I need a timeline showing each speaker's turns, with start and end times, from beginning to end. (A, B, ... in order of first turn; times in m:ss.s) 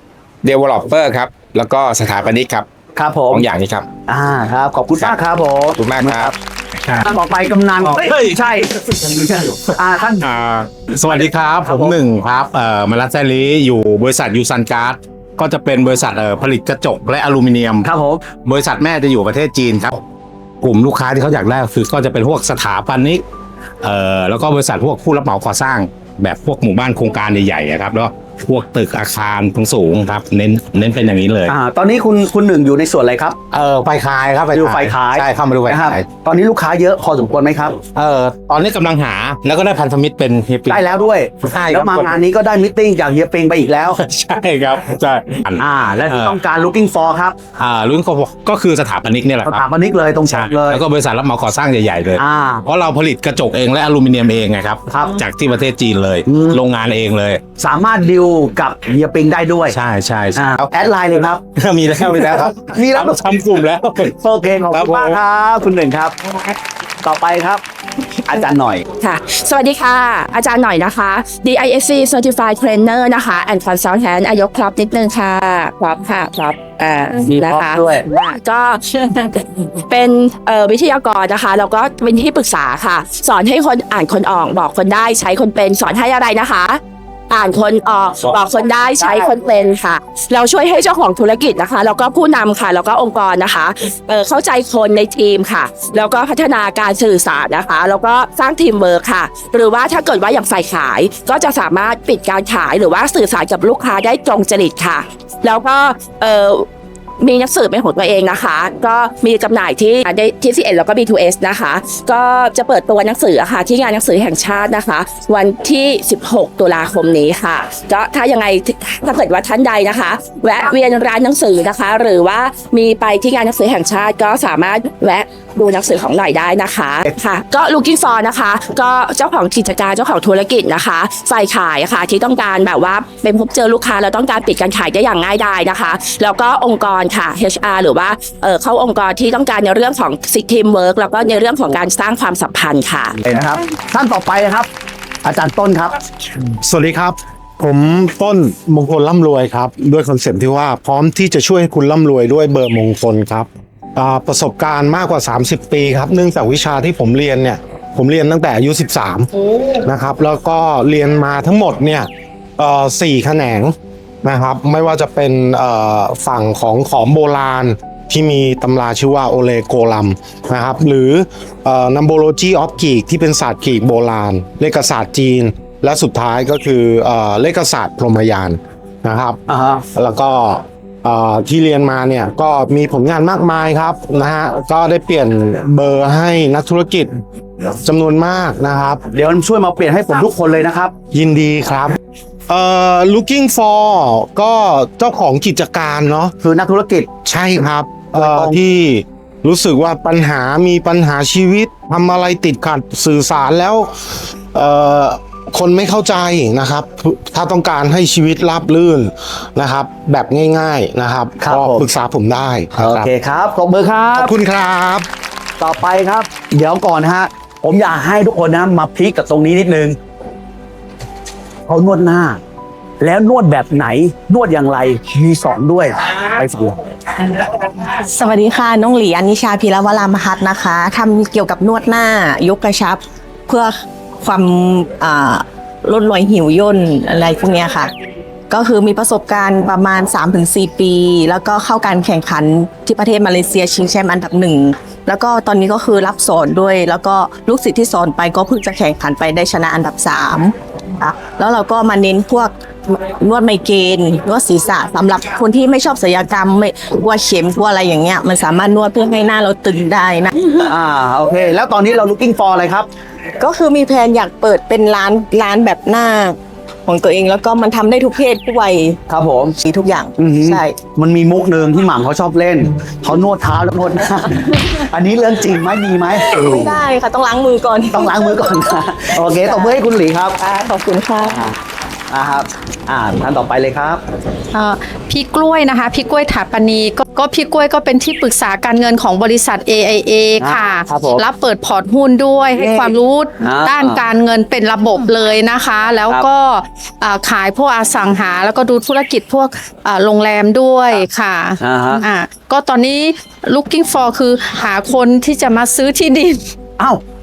0:00.4-0:02.7 A
0:03.0-0:03.5 B
0:03.3-0:03.8 A
0:04.1-0:06.3 B
0:05.8-0:06.3 A
0:07.0-0:10.3 B
0:08.1-0:08.3 C
0:10.2-0:17.9 C
0:11.1-0:12.0 B
0:17.8-0:18.2 B
0:18.4-0:20.0 C
0:20.6-0:23.2 C
0:23.8-0:31.5 C
0:31.5-0:33.4 B
0:33.5-0:36.0 C
0:34.5-0:37.8 B
0:38.0-0:40.8 C
0:40.7-0:44.0 B
0:41.5-0:42.2 C
0:44.0-0:46.4 C
0:45.6-0:47.4 B
0:47.6-0:49.6 C
0:49.4-0:50.9 B
0:50.3-0:57.4 C
0:52.2-0:52.7 B
0:54.9-0:55.2 B
0:56.2-0:56.6 B
0:57.6-0:59.8 B
0:59.7-1:00.6 C
1:00.3-1:06.2 B
1:01.6-1:04.1 C
1:04.7-1:05.2 C
1:07.0-1:07.6 B
1:08.2-1:08.8 B
1:09.0-1:46.7 D
1:47.2-2:23.1 D
2:23.2-2:24.7 B
2:25.2-2:26.0 B
2:26.6-2:59.4 E
2:59.5-2:59.8 B
2:59.9-3:07.2 E
3:07.8-3:09.0 E
3:09.1-3:10.9 B
3:11.1-3:16.3 E
3:16.4-3:17.1 B
3:17.2-3:33.1 E
3:18.1-3:18.6 B
3:31.4-3:31.9 B
3:32.8-3:34.3 B
3:34.2-3:35.1 E
3:35.6-3:40.0 B
3:41.7-3:42.4 B
3:43.0-3:46.8 B
3:48.1-3:57.9 F
3:58.5-4:20.3 F
4:20.6-4:22.9 B
4:23.4-4:29.0 F
4:29.1-4:29.6 B
4:29.6-4:30.7 F
4:30.2-4:36.8 B
4:36.4-4:38.6 F
4:37.9-4:40.4 B
4:39.3-4:39.8 F
4:40.4-4:41.4 F
4:41.2-4:41.6 B
4:42.1-4:44.0 B
4:44.5-5:06.4 G
4:50.4-4:51.2 B
4:52.5-4:54.0 B
5:01.6-5:02.1 B